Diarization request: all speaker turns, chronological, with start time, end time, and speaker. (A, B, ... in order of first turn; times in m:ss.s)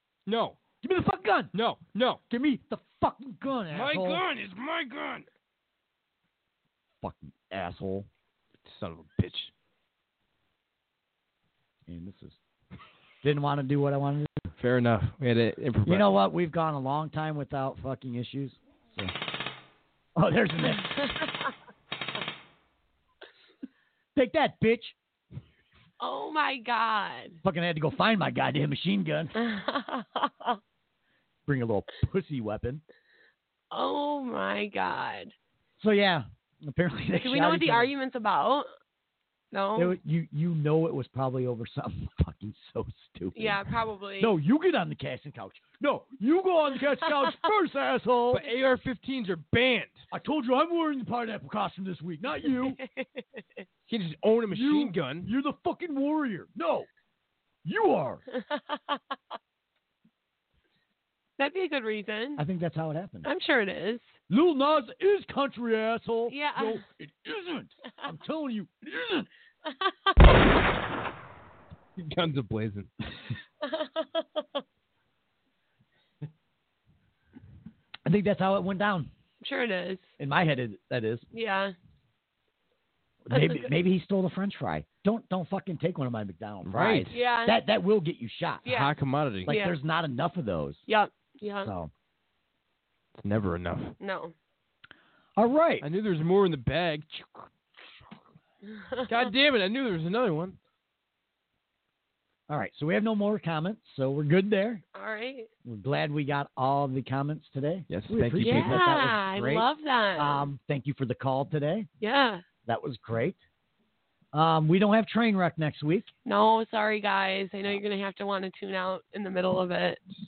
0:00.3-0:00.6 A
0:00.8-0:01.5 B
0:01.5-0:02.2 A
0:02.3-0:04.2 B
0:03.7-0:05.3 A
0:07.0-0:08.1 B
0:08.6-0:09.5 A
0:11.9-0:12.4 B
0:13.2-0:14.5 B
0:14.6-0:16.1 A
0:15.8-0:19.2 B
0:20.2-0:20.9 B
0:20.6-0:21.5 C
0:24.2-0:25.0 B
0:26.0-0:27.4 C
0:27.4-0:29.4 B
0:29.4-0:30.6 C
0:31.5-0:32.8 B
0:33.7-0:35.3 C
0:35.8-0:37.9 B
0:37.2-0:38.7 C
0:39.5-0:40.0 C
0:39.8-0:48.5 B
0:43.4-0:44.3 C
0:48.3-0:50.0 A
0:50.1-0:52.8 B
0:52.5-0:53.4 C
0:53.9-0:55.3 A
0:54.5-0:56.9 B
0:57.6-0:58.2 B
0:58.4-0:59.0 C
1:01.4-1:02.4 C
1:02.4-1:03.3 B
1:03.2-1:04.2 C
1:04.3-1:09.3 B
1:06.3-1:06.8 C
1:09.7-1:10.2 C
1:12.0-1:12.9 A
1:13.6-1:14.6 C
1:18.1-1:19.1 B
1:19.4-1:20.1 C
1:20.2-1:21.3 B
1:21.3-1:21.7 C
1:23.3-1:28.7 B
1:23.3-1:23.7 C
1:26.6-1:27.2 A
1:27.1-1:27.6 C
1:28.6-1:28.9 C
1:28.7-1:29.5 A
1:29.5-1:30.8 B
1:29.5-1:29.8 C
1:30.9-1:31.7 C
1:31.6-1:31.9 B
1:33.2-1:34.0 A
1:34.0-1:34.4 C
1:35.4-1:35.9 B
1:35.8-1:37.5 A
1:38.8-1:39.1 C
1:39.1-1:40.6 A
1:42.5-1:44.8 B
1:45.0-1:45.5 C
1:45.6-1:51.9 B
1:47.9-1:48.8 A
1:48.4-1:50.5 C
1:52.0-1:52.4 C
1:52.7-1:53.4 B
1:54.3-1:56.1 B
1:56.3-2:00.0 C